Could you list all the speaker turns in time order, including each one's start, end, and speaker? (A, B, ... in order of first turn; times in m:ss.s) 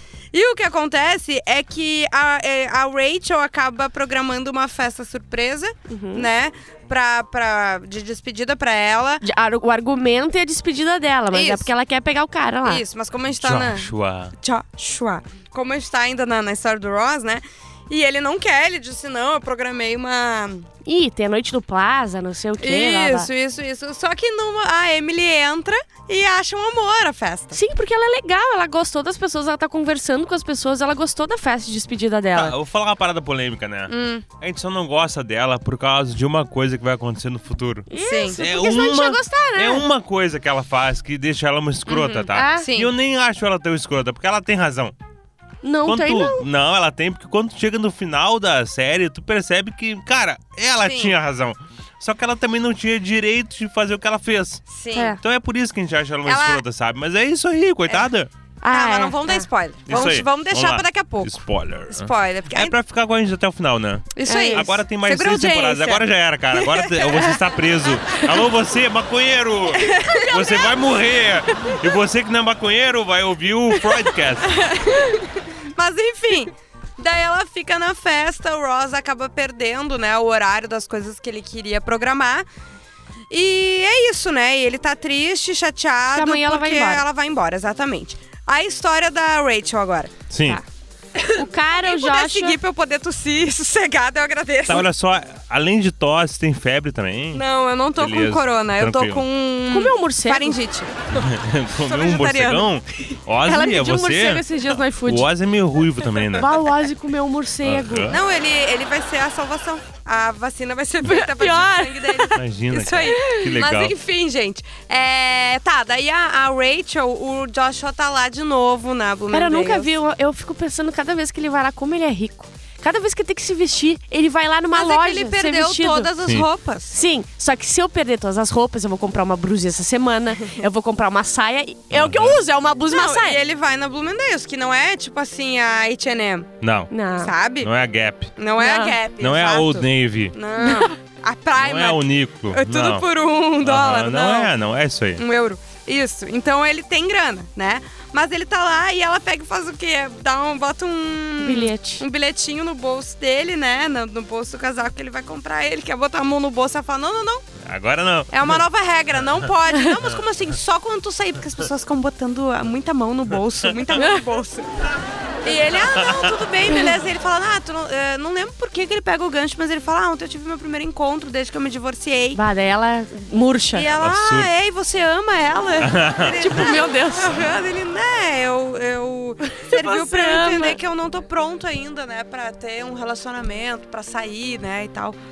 0:00.3-0:09.2 A
0:05.9-0:06.3 B
0:09.2-0:12.8 B
0:11.3-0:11.7 A
0:12.6-0:20.6 A
0:13.4-0:14.3 C
0:20.8-0:23.3 B
0:22.6-0:27.6 A
0:27.5-0:32.6 B
0:32.3-0:44.9 C
0:33.9-0:34.2 A
0:37.9-0:39.8 B
0:38.0-0:38.4 A
0:41.8-0:42.9 A
0:42.3-0:42.7 B
0:45.6-0:46.4 B
0:45.8-0:54.6 C
0:50.8-0:51.2 A
0:54.7-0:55.2 A
0:55.2-0:58.3 C
0:56.2-0:56.6 A
0:58.6-1:00.1 B
0:58.7-1:02.8 A
0:59.8-1:14.6 C
1:04.1-1:07.3 A
1:04.3-1:04.8 B
1:07.9-1:08.2 A
1:09.7-1:11.2 A
1:14.4-1:22.4 A
1:23.3-1:30.6 A
1:26.1-1:27.0 B
1:30.3-1:30.6 C
1:31.2-1:34.9 A
1:31.4-1:32.6 B
1:34.7-1:37.4 C
1:37.3-1:41.3 A
1:37.9-1:39.2 C
1:39.7-1:40.5 B
1:41.2-1:44.4 C
1:41.8-1:42.8 A
1:43.4-1:45.3 B
1:45.0-1:46.5 C
1:46.4-1:48.1 B
1:47.6-1:48.2 C
1:48.1-1:59.9 A
1:51.0-1:52.4 B
1:52.3-1:53.9 C
1:53.0-1:53.5 B
1:59.3-2:06.1 B
2:04.7-2:07.0 A
2:06.9-2:13.4 B
2:11.9-2:12.4 C
2:12.9-2:16.5 A
2:16.6-2:16.9 C
2:16.9-2:17.3 B
2:17.1-2:17.7 A
2:17.6-2:18.3 C
2:18.4-2:24.5 A
2:18.6-2:19.0 B
2:19.2-2:20.4 C
2:20.6-2:20.9 B
2:21.6-2:23.0 C
2:23.6-2:25.2 C
2:25.2-2:37.4 A
2:31.4-2:32.0 B
2:37.6-2:38.6 C
2:38.3-2:44.7 A
2:43.9-2:44.2 B
2:45.4-2:52.4 A
2:52.3-2:53.9 B
2:53.7-3:05.2 A
2:54.0-2:54.5 C
2:55.8-2:56.7 C
2:56.4-2:57.4 B
2:59.4-3:00.8 B